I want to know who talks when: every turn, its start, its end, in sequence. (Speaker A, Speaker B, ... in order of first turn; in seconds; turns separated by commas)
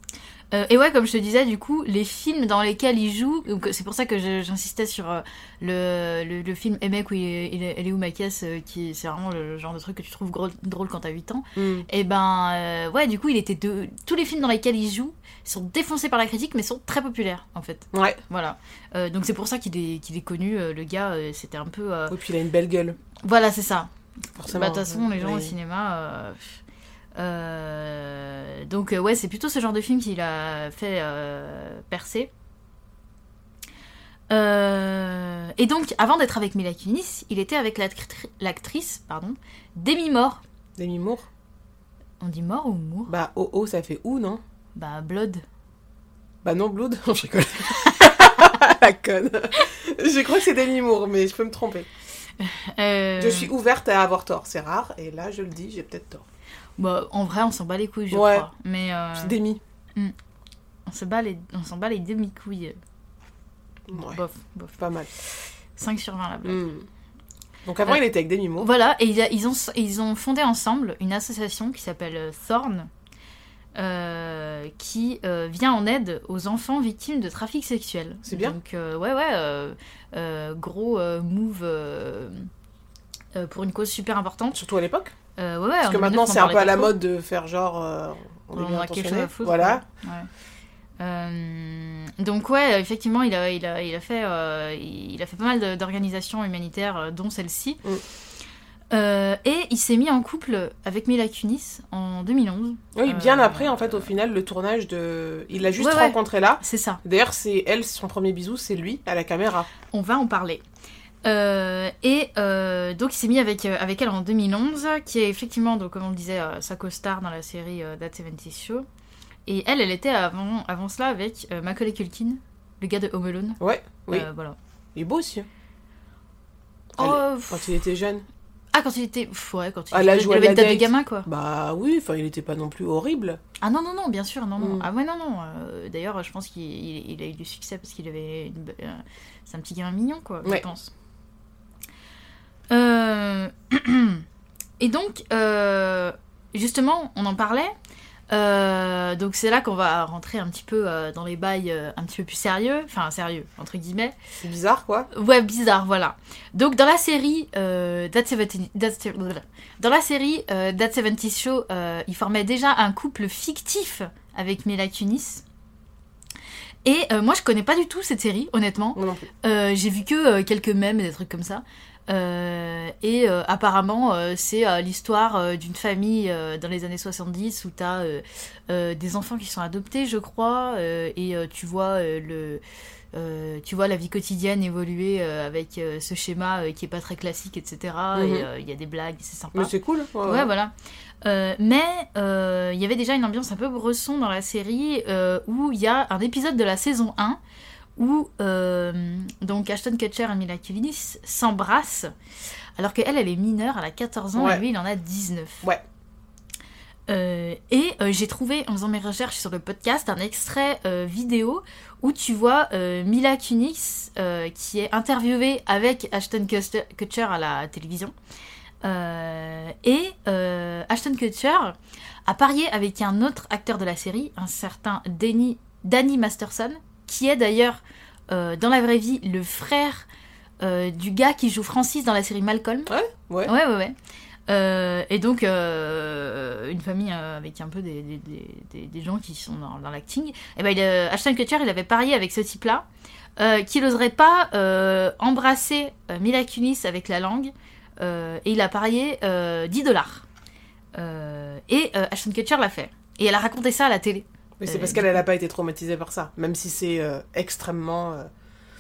Speaker A: 0.5-22.1, Speaker B: 11.6-11.9, Speaker B: 17.9-18.2, Speaker B: 22.1-23.0, Speaker A: 23.2-23.9, Speaker B: 24.4-25.6, Speaker A: 24.5-26.6, Speaker A: 27.2-32.3, Speaker A: 34.3-40.4, Speaker B: 40.8-41.3, Speaker A: 42.2-43.1, Speaker B: 43.1-44.4, Speaker A: 44.8-45.4, Speaker B: 46.4-51.9, Speaker A: 48.0-48.4, Speaker A: 52.4-53.5, Speaker B: 53.2-56.2, Speaker A: 56.8-59.4, Speaker B: 58.1-58.5, Speaker B: 59.2-59.6, Speaker A: 60.9-62.8, Speaker B: 63.9-64.2, Speaker A: 63.9-64.8, Speaker B: 64.8-65.1, Speaker A: 65.7-66.6, Speaker B: 66.4-66.9, Speaker B: 67.7-68.7, Speaker A: 68.6-72.9, Speaker A: 73.8-82.5, Speaker B: 78.3-78.6, Speaker A: 83.3-84.6, Speaker B: 84.5-85.1, Speaker A: 85.4-87.0, Speaker B: 85.8-89.8, Speaker A: 88.5-90.3, Speaker A: 91.0-97.8, Speaker A: 98.9-104.1, Speaker B: 103.0-109.7, Speaker A: 105.8-107.0, Speaker A: 109.9-110.6, Speaker A: 111.2-118.9, Speaker A: 119.5-123.6, Speaker B: 123.6-124.3, Speaker A: 124.1-124.6, Speaker B: 125.0-125.5, Speaker B: 127.0-128.3, Speaker A: 127.0-127.7, Speaker A: 128.7-131.3, Speaker B: 129.9-133.4, Speaker A: 133.6-140.9, Speaker B: 134.6-134.9, Speaker A: 142.7-144.2, Speaker A: 144.8-147.7, Speaker A: 148.3-154.2, Speaker B: 154.4-155.1, Speaker A: 155.1-165.4, Speaker A: 166.8-182.6, Speaker B: 168.9-169.3, Speaker A: 183.1-189.7, Speaker B: 188.2-188.5, Speaker B: 189.5-190.5, Speaker A: 190.3-197.4, Speaker A: 198.0-202.1, Speaker A: 202.8-205.6, Speaker B: 204.3-204.6, Speaker A: 207.1-218.1, Speaker A: 218.8-230.1, Speaker A: 230.6-232.9, Speaker B: 232.9-233.5, Speaker A: 233.5-234.0, Speaker A: 234.5-242.8, Speaker A: 243.4-250.2, Speaker A: 250.9-255.2, Speaker B: 254.6-258.3